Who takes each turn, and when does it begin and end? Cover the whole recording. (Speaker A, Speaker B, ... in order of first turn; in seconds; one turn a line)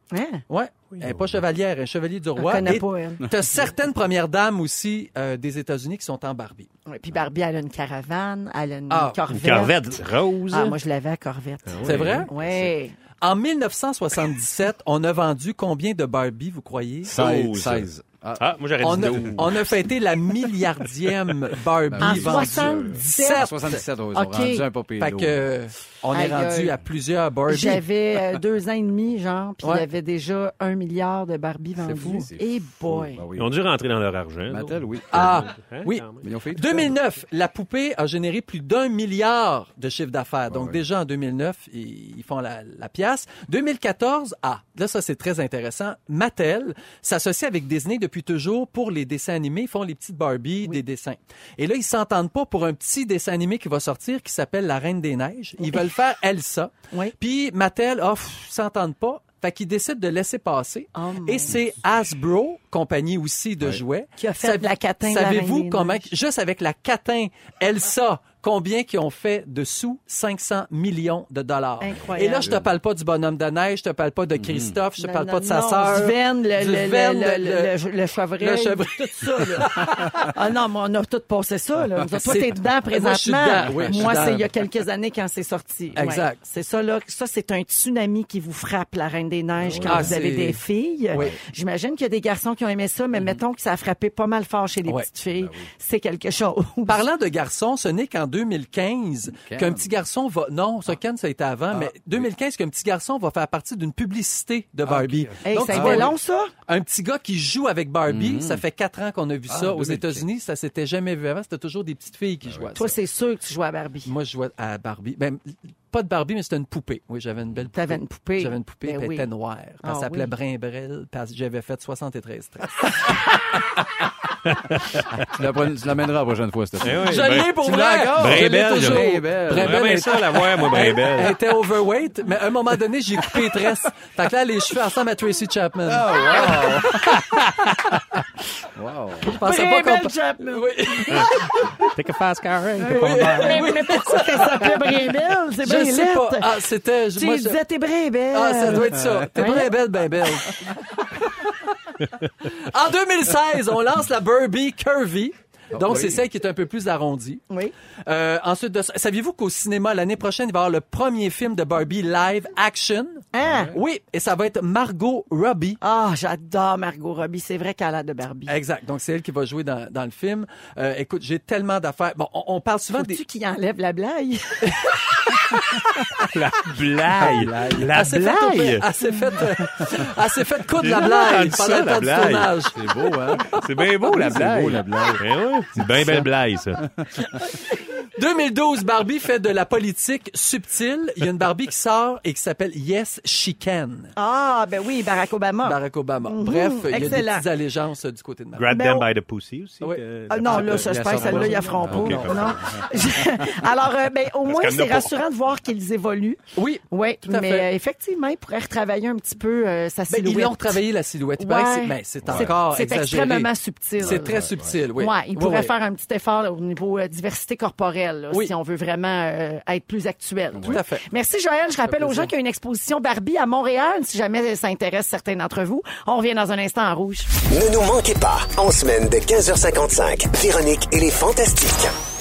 Speaker A: 0.1-0.4
Speaker B: 0.5-6.7
Speaker C: 1.1-1.3
Speaker A: 2.4-3.3
Speaker A: 6.9-9.8
Speaker B: 8.9-9.2
Speaker D: 9.3-10.8
Speaker A: 10.5-12.9
Speaker D: 11.7-12.3
Speaker B: 11.8-12.3
Speaker C: 12.4-12.7
Speaker B: 13.2-17.2
Speaker C: 17.0-19.7
Speaker D: 17.1-19.8
Speaker B: 18.8-23.7
Speaker C: 21.8-25.5
Speaker A: 22.0-23.5
Speaker A: 24.1-24.6
Speaker B: 25.0-27.8
Speaker A: 26.1-26.8
Speaker A: 27.5-33.2
Speaker C: 31.8-33.5
Speaker D: 33.4-36.2
Speaker C: 34.5-35.5
Speaker B: 35.1-77.8
Speaker C: 36.2-37.0
Speaker C: 40.5-40.8
Speaker A: 61.0-61.6
Speaker A: 64.2-66.1
Speaker A: 71.8-72.5
Speaker C: 72.4-72.7
Speaker C: 74.3-74.8
Speaker A: 75.0-97.0
Speaker B: 78.4-80.3
Speaker B: 82.1-84.5
Speaker C: 83.7-84.4
Speaker B: 86.0-86.4
Speaker C: 89.6-90.2
Speaker B: 89.7-91.4
Speaker C: 91.1-91.4
Speaker C: 95.3-95.7
Speaker B: 96.9-113.0
Speaker C: 99.4-99.9
Speaker C: 101.7-102.3
Speaker C: 104.8-106.1
Speaker A: 105.5-106.5
Speaker C: 108.1-108.6
Speaker C: 109.5-110.3
Speaker C: 112.4-112.8
Speaker A: 112.7-114.1
Speaker B: 114.0-123.8
Speaker A: 117.7-119.3
Speaker A: 119.8-120.3
Speaker D: 124.5-125.1
Speaker C: 125.1-129.8
Speaker D: 126.8-131.4
Speaker B: 126.9-137.3
Speaker C: 135.9-137.1
Speaker D: 137.1-137.9
Speaker C: 138.8-139.3
Speaker B: 139.3-141.9
Speaker A: 139.3-141.3
Speaker D: 141.9-143.7
Speaker A: 142.8-146.5
Speaker B: 142.8-145.1
Speaker B: 145.6-147.6
Speaker A: 147.2-149.7
Speaker B: 148.3-151.7
Speaker C: 148.8-149.6
Speaker B: 152.5-157.4
Speaker C: 155.7-156.2
Speaker B: 158.1-165.8
Speaker A: 163.3-163.8
Speaker C: 163.4-163.8
Speaker A: 165.8-168.6
Speaker B: 168.5-173.2
Speaker A: 172.9-175.0
Speaker D: 176.2-178.9
Speaker C: 177.2-177.9
Speaker B: 177.7-182.8
Speaker A: 178.5-178.8
Speaker D: 180.7-182.5
Speaker C: 182.7-183.5
Speaker D: 183.5-186.8
Speaker C: 184.0-187.6
Speaker B: 187.7-194.1
Speaker A: 194.2-197.4
Speaker B: 195.6-198.8
Speaker D: 198.6-201.0
Speaker A: 198.7-199.1
Speaker B: 199.8-202.3
Speaker A: 200.3-210.8
Speaker C: 200.6-203.0
Speaker D: 201.9-202.8
Speaker D: 204.5-205.2
Speaker B: 206.6-207.7
Speaker B: 210.1-215.7
Speaker A: 211.4-227.3
Speaker C: 212.2-212.5
Speaker C: 214.0-214.8
Speaker C: 220.5-220.8
Speaker B: 220.7-221.1
Speaker B: 221.8-222.3
Speaker E: 227.5-231.9